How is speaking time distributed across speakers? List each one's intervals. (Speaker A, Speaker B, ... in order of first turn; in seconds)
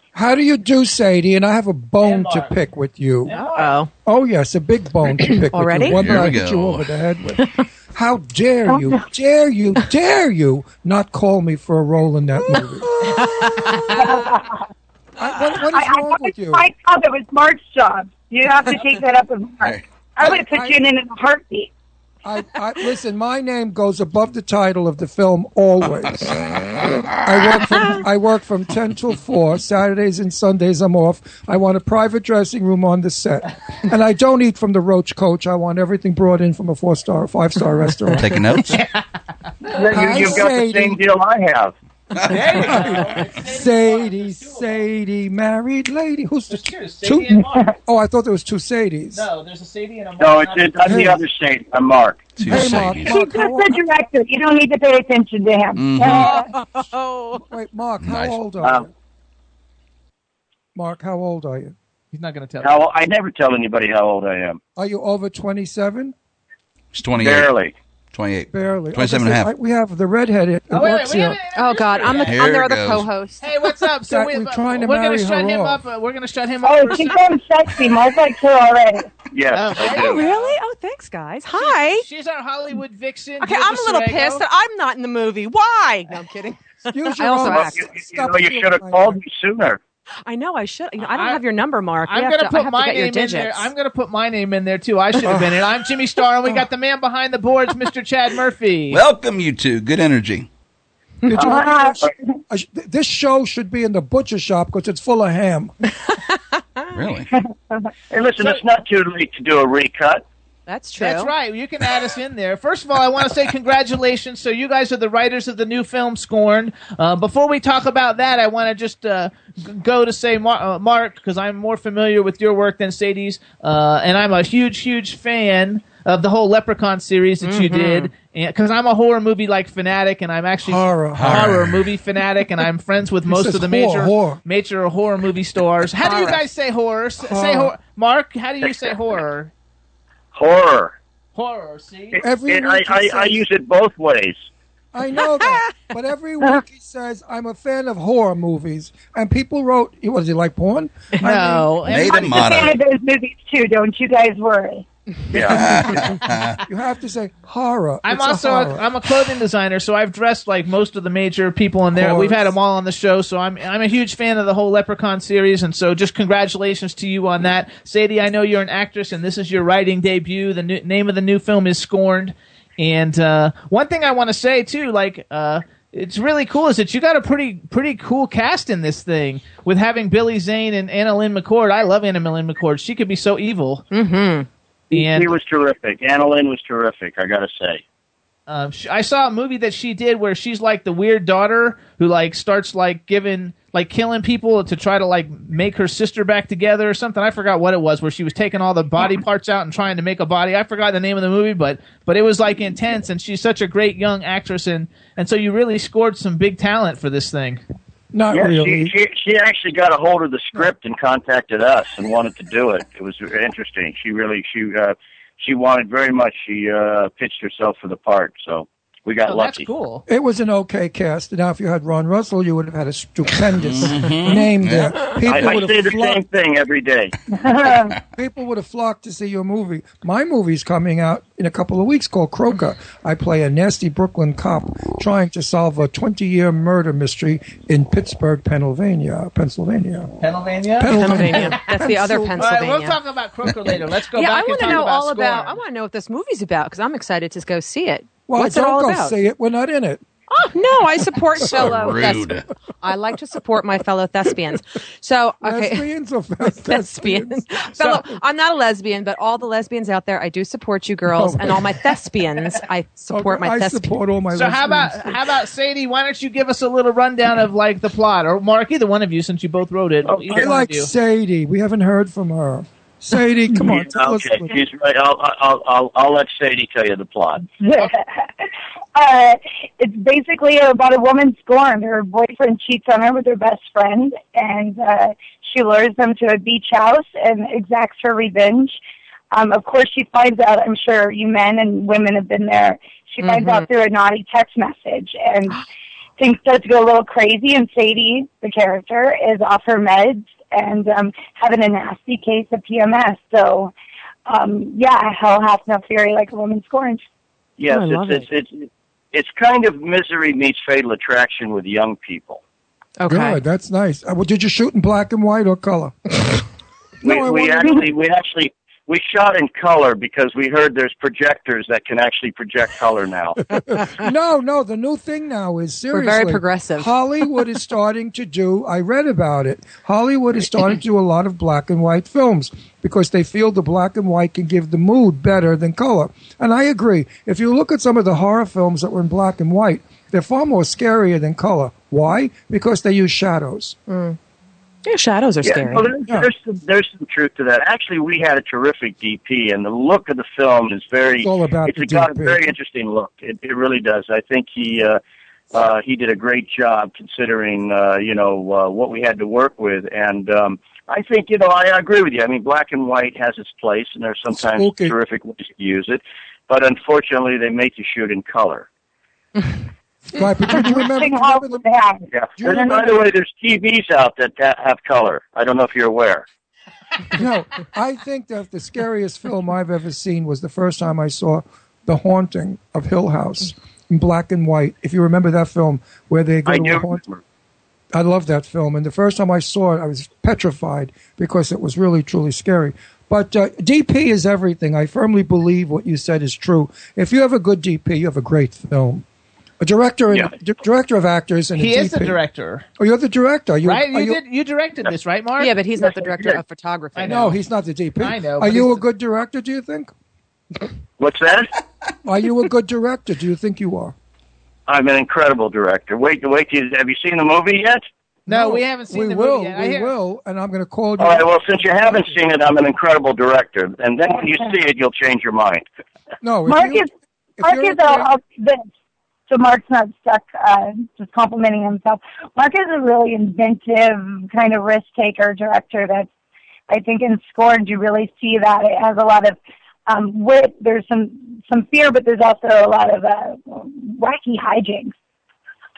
Speaker A: 0.1-3.3, 4.0-12.9, 15.2-16.6, 20.3-20.8, 22.2-26.4, 27.1-38.5, 39.9-41.0, 42.5-47.3, 47.8-49.2, 50.9-51.2, 52.4-53.8, 57.3-58.9, 60.7-61.7, 64.8-66.1, 68.5-71.4, 74.1-75.8, 86.9-89.2, 95.3-95.5, 101.2-105.7, 130.6-131.6, 133.2-134.4, 137.3-137.7, 142.2-143.4, 144.9-151.7, 156.6-158.9, 161.9-162.5, 208.1-208.9, 220.1-226.2, 228.1-240.2, 240.8-242.5, 248.3-250.0, 255.4-257.6, 261.1-261.8, 263.1-265.2, 270.3-274.5, 313.1-316.4, 317.0-317.9, 323.5-343.8, 351.2-352.5, 364.4-364.9, 370.1-371.6, 372.4-372.9, 377.1-387.0, 387.9-399.0, 399.6-402.2, 402.8-404.2, 407.1-409.9, 412.0-413.9, 418.3-422.2, 426.2-426.9, 427.4-428.1
Speaker B: 2.0-2.5, 3.2-3.8, 38.7-39.0, 42.2-44.8, 46.5-47.7, 49.1-51.1, 62.1-62.7, 70.7-72.4, 73.4-77.2, 79.5-80.5, 81.5-84.4, 91.0-91.4, 92.0-99.0, 111.0-139.5, 141.3-142.2, 151.2-152.4, 158.0-183.8, 184.9-185.3, 188.5-207.6, 219.3-220.0, 240.2-241.7, 242.4-245.6, 264.3-270.9, 401.6-402.6, 403.6-405.5, 406.9-407.3, 408.0-408.8, 418.3-419.9
Speaker C: 3.3-3.9, 5.2-6.2, 12.9-14.2, 56.3-57.4, 71.5-73.5, 79.8-82.0, 83.4-87.8, 90.2-93.7, 106.1-106.9, 110.7-111.3, 127.4-128.1, 136.0-136.4, 145.4-145.7, 183.9-184.5, 240.9-243.0, 244.1-249.2, 250.3-255.9, 256.4-263.9, 293.2-293.6, 307.7-308.2, 313.0-313.4, 325.9-326.9, 343.9-344.2, 344.8-345.9, 405.4-407.3
Speaker D: 5.9-6.9, 26.2-27.8, 38.1-38.8, 52.4-53.1, 55.8-56.3, 58.0-58.4, 66.9-67.5, 68.1-69.5, 72.2-73.1, 98.9-100.5, 106.9-107.3, 131.1-131.8, 151.8-152.8, 155.5-156.6, 223.6-225.5, 251.4-252.5
Speaker E: 8.7-9.0, 13.9-14.6, 15.6-21.7, 53.0-56.5, 76.6-79.1, 101.4-102.0, 151.9-154.8, 227.3-227.9, 277.5-278.2, 278.9-288.8, 289.3-295.6, 296.2-303.7, 304.2-307.0, 370.5-372.8, 426.4-426.9, 427.4-428.6, 429.3-436.1, 436.7-444.9
Speaker F: 39.7-41.7, 50.2-52.3, 62.6-64.6, 67.2-67.7, 79.3-80.2, 87.5-89.8, 108.1-110.2, 140.3-140.9, 142.2-144.4, 155.3-155.7, 184.9-187.8, 208.3-219.7, 225.3-227.1, 270.1-270.5, 273.6-277.4, 307.6-312.4, 317.0-323.4, 345.4-355.0, 355.5-368.6, 372.1-376.2, 386.5-387.2, 405.8-406.4, 411.0-411.5, 414.7-417.8, 421.0-425.6